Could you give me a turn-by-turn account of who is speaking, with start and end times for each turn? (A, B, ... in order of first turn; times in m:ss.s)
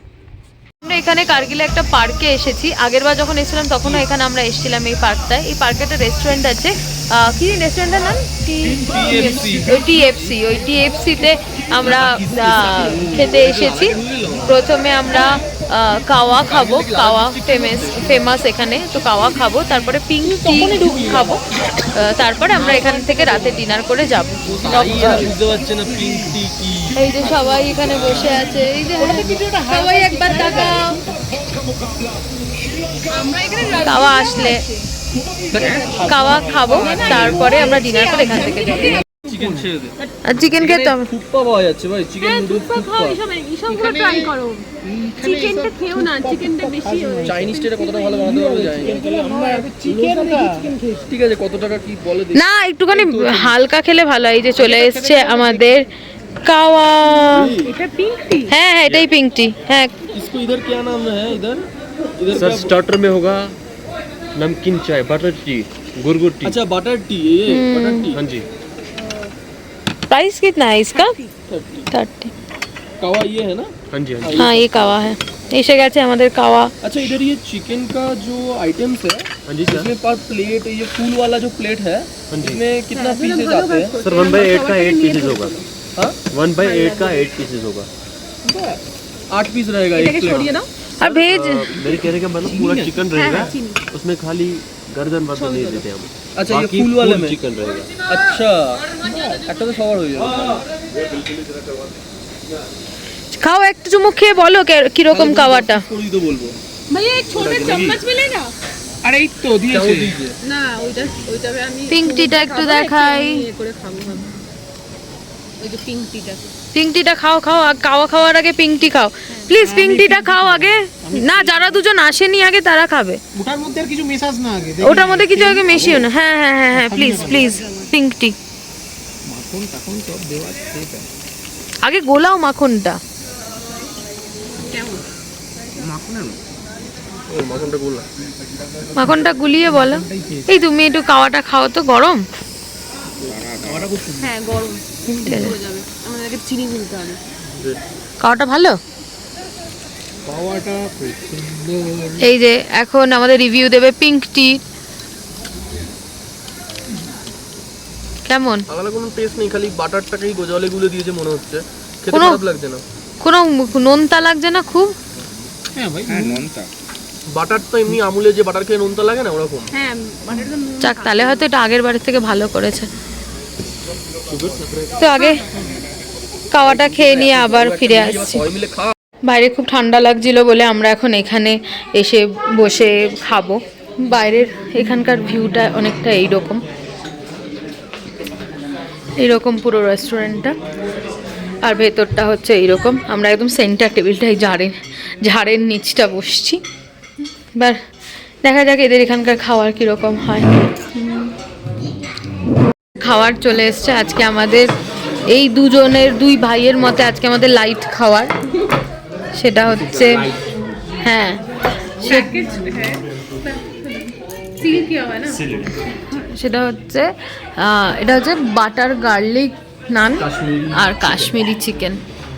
0:00.8-0:25.3 A
0:08.6-0:10.4 B
0:11.7-0:14.6 B
0:16.4-0:18.3 B
0:20.3-0:21.4 C
0:20.4-0:21.4 B
0:24.5-0:27.1 B
0:24.8-0:26.3 C
0:26.9-0:31.0 A
0:29.0-0:32.0 C
0:30.3-0:30.7 D
0:33.1-0:34.8 D
0:33.7-0:34.6 A
0:35.5-0:37.6 C
0:35.5-0:36.0 B
0:35.6-0:39.0 D
0:36.0-0:39.0 A
0:38.2-0:40.1 C
0:39.2-0:40.0 B
0:40.3-0:41.1 A
0:40.6-0:43.2 B
0:42.2-0:48.4 D
0:43.7-0:44.3 C
0:44.8-0:51.1 C
0:47.3-0:50.5 B
0:51.1-0:53.6 B
0:52.3-0:55.9 A
0:54.6-0:55.8 C
0:56.4-0:57.6 A
0:57.3-0:57.7 B
0:57.6-0:58.5 D
0:58.5-1:00.0 A
1:00.1-1:02.7 B
1:02.3-1:03.5 E
1:04.4-1:06.6 E
1:06.4-1:08.2 B
1:07.5-1:08.1 A
1:08.1-1:08.5 E
1:10.1-1:11.1 A
1:10.9-1:11.3 D
1:11.5-1:11.9 B
1:11.9-1:12.3 A
1:13.0-1:15.0 B
1:13.9-1:14.5 E
1:14.4-1:16.8 A
1:16.8-1:23.9 B
1:19.5-1:19.9 E
1:22.3-1:22.6 E
1:22.9-1:25.7 D
1:24.0-1:25.6 E
1:26.3-1:27.9 E
1:26.6-1:27.3 D
1:28.5-1:30.6 B
1:30.0-1:30.7 D
1:31.0-1:31.8 A
1:31.0-1:37.9 E
1:32.4-1:32.9 B
1:33.1-1:33.8 D
1:35.4-1:35.8 D
1:36.4-1:37.4 B
1:38.0-1:42.0 B
1:39.1-1:39.4 C
1:43.4-1:45.8 A
1:45.1-1:46.6 B
1:46.9-1:48.5 D
1:47.4-1:48.0 B
1:49.0-1:50.2 C
1:49.7-1:50.4 B
1:50.4-1:54.3 D
1:51.9-1:53.4 A
1:55.6-1:56.5 D
1:56.7-2:03.2 A
1:59.5-2:01.8 C
2:03.4-2:06.1 C
2:04.8-2:08.4 A
2:06.7-2:07.8 C
2:09.3-2:11.1 C
2:11.8-2:13.0 A
2:14.6-2:15.1 D
2:15.8-2:16.4 C
2:17.3-2:18.1 B
2:18.9-2:22.2 A
2:19.0-2:20.5 C
2:23.2-2:23.9 B
2:23.3-2:24.3 C
2:24.2-2:27.2 D
2:25.1-2:25.6 A
2:27.5-2:27.8 B
2:28.2-2:28.8 A
2:30.3-2:32.2 C
2:32.2-2:34.6 A
2:38.3-2:38.6 A
2:38.7-2:42.8 B
2:42.1-2:42.4 A
2:43.2-2:44.9 A
2:45.8-2:46.7 C
2:46.1-2:46.4 B
2:47.3-2:49.7 B
2:49.7-2:51.4 D
2:50.8-2:52.9 A
2:54.3-2:55.1 B
2:55.0-2:55.4 A
2:56.5-2:58.4 A
2:56.6-2:59.0 B
2:59.2-3:06.6 A
3:09.2-3:10.6 A
3:11.6-3:16.6 A
3:18.4-3:21.3 A
3:23.0-3:24.7 A
3:25.3-3:28.3 A
3:29.4-3:30.3 A
3:29.9-3:30.4 B
3:31.0-3:31.4 A
3:32.0-3:32.3 A
3:32.0-3:35.5 D
3:36.2-3:42.0 A
3:40.2-3:41.2 B